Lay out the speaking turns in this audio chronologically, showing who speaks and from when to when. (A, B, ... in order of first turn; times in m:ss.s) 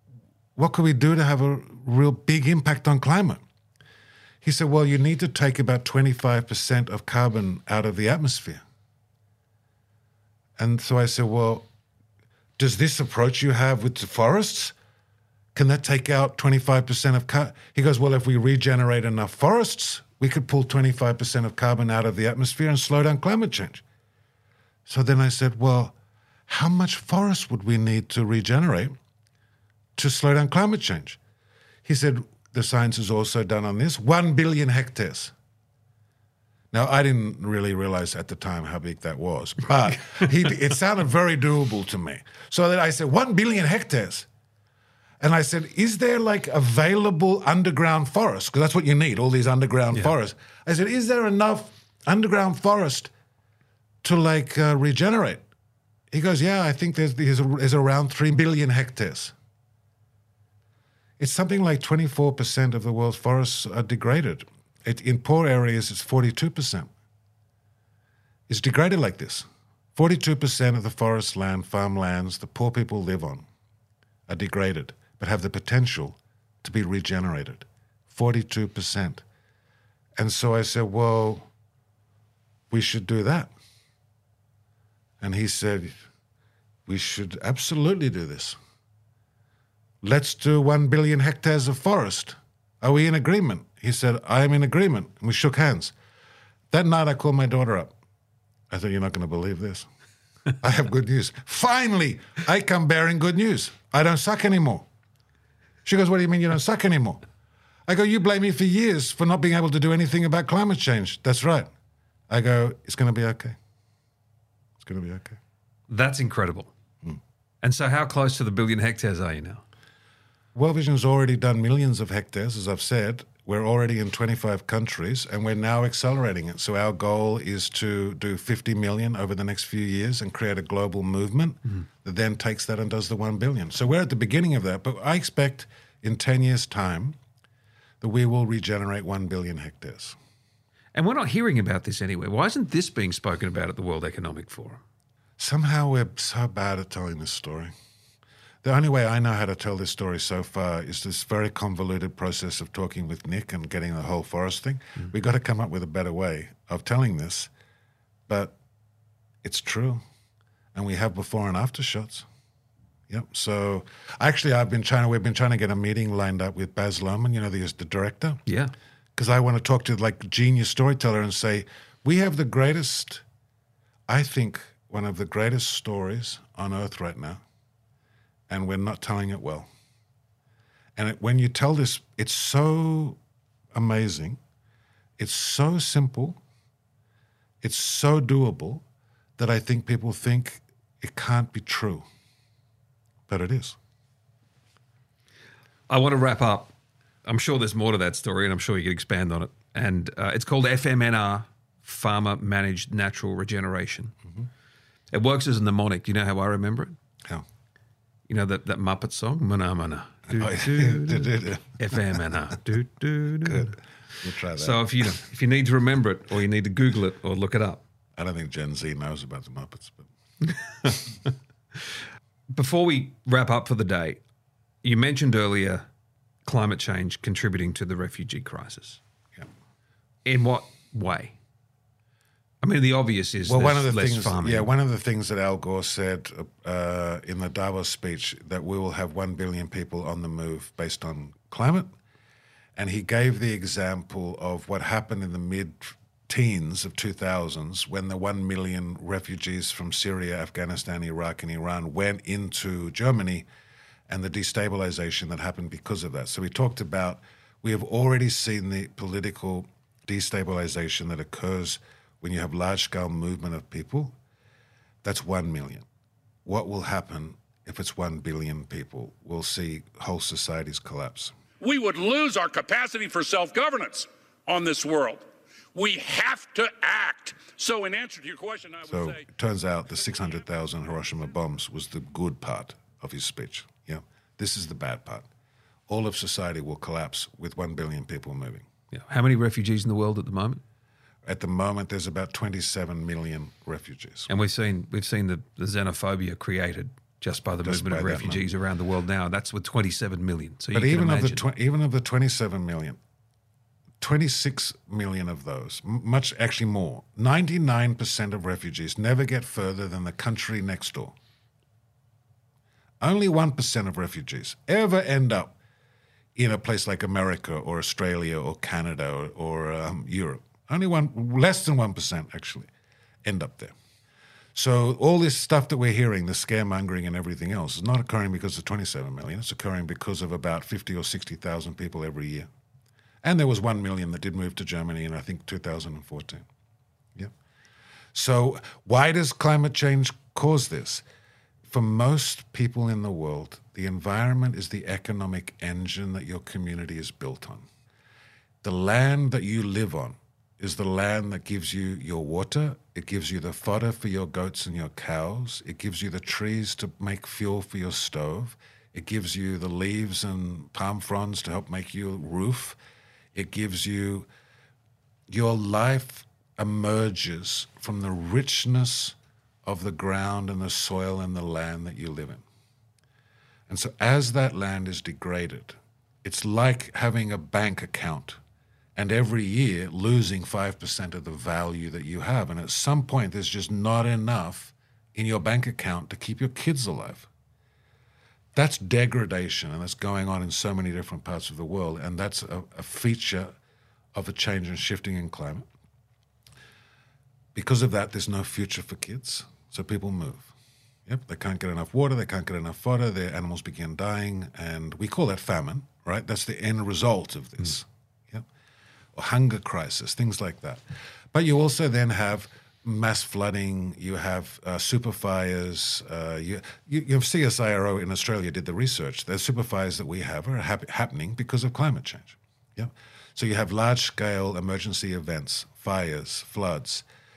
0:00.6-0:03.4 A
0:04.4-0:08.6 A
0:10.6-0:11.6 A
0:12.6-0:14.7 A
0:15.5-0:23.8 A
0:24.9-0:25.9 A
0:26.5-0:28.9 A
0:30.0-0:31.2 A
0:31.8-0:35.3 A
0:36.7-0:44.3 A
0:45.2-0:53.1 A
0:54.0-0:55.4 A
0:56.1-0:59.3 A
1:01.2-1:06.9 A
1:08.5-1:13.4 A
1:14.3-1:19.2 A
1:20.2-1:21.5 A
1:22.7-1:23.5 A
1:25.2-1:25.9 A
1:26.9-1:28.6 A
1:30.0-1:35.9 A
1:36.7-1:37.9 A
1:38.7-1:39.9 A
1:40.6-1:44.8 A
1:45.8-1:47.2 A
1:47.9-1:51.7 A
1:52.3-1:53.6 A
1:54.8-1:55.4 A
1:55.9-1:56.7 B
1:57.6-1:59.6 B
2:00.5-2:17.2 A
2:18.0-2:20.2 A
2:20.9-2:24.8 B
2:25.4-2:27.7 A
2:28.6-2:37.5 A
2:38.3-2:38.6 A
2:39.4-2:40.0 A
2:40.7-2:42.2 A
2:43.1-2:48.4 A
2:48.4-2:48.7 B
2:49.2-2:53.2 A
2:54.1-2:57.4 A
2:58.5-2:59.7 A
3:01.0-3:03.2 A
3:03.7-3:04.4 A
3:05.2-3:06.4 A
3:07.6-3:08.8 A
3:09.4-3:12.0 A
3:13.3-3:13.8 A
3:15.9-3:16.7 B
3:17.2-3:24.2 B
3:25.1-3:27.0 B
3:28.3-3:33.8 B
3:30.3-3:31.8 A
3:33.4-3:34.8 A
3:34.6-3:37.8 B
3:38.2-3:40.1 A
3:40.8-3:41.3 B
3:42.5-3:44.2 B
3:44.8-3:45.8 B
3:46.4-3:49.0 B
3:50.2-3:51.3 B
3:52.6-3:54.7 B
3:53.4-4:01.9 A
4:02.8-4:13.4 A
4:14.1-4:24.1 A
4:25.0-4:25.8 A
4:26.4-4:31.3 A
4:31.6-4:35.2 C
4:35.7-4:39.2 C
4:38.9-4:45.3 A
4:45.9-4:48.6 A
4:48.9-4:50.6 B
4:51.2-4:54.3 A
4:54.3-5:01.4 B
4:57.6-4:58.4 A
5:00.7-5:03.0 A
5:04.0-5:11.1 A
5:13.0-5:15.6 A
5:16.4-5:22.7 A
5:23.2-5:23.7 A
5:24.5-5:32.5 A
5:33.2-5:36.4 A
5:38.1-5:41.0 A
5:41.7-5:47.6 A
5:48.6-6:02.8 A
6:03.3-6:04.3 A
6:05.3-6:12.4 A
6:13.7-6:18.4 A
6:19.0-6:27.3 A
6:28.5-6:33.5 A
6:34.1-6:35.6 A
6:37.5-6:40.5 A
6:41.1-6:48.4 A
6:49.1-6:50.8 A
6:51.3-7:07.0 A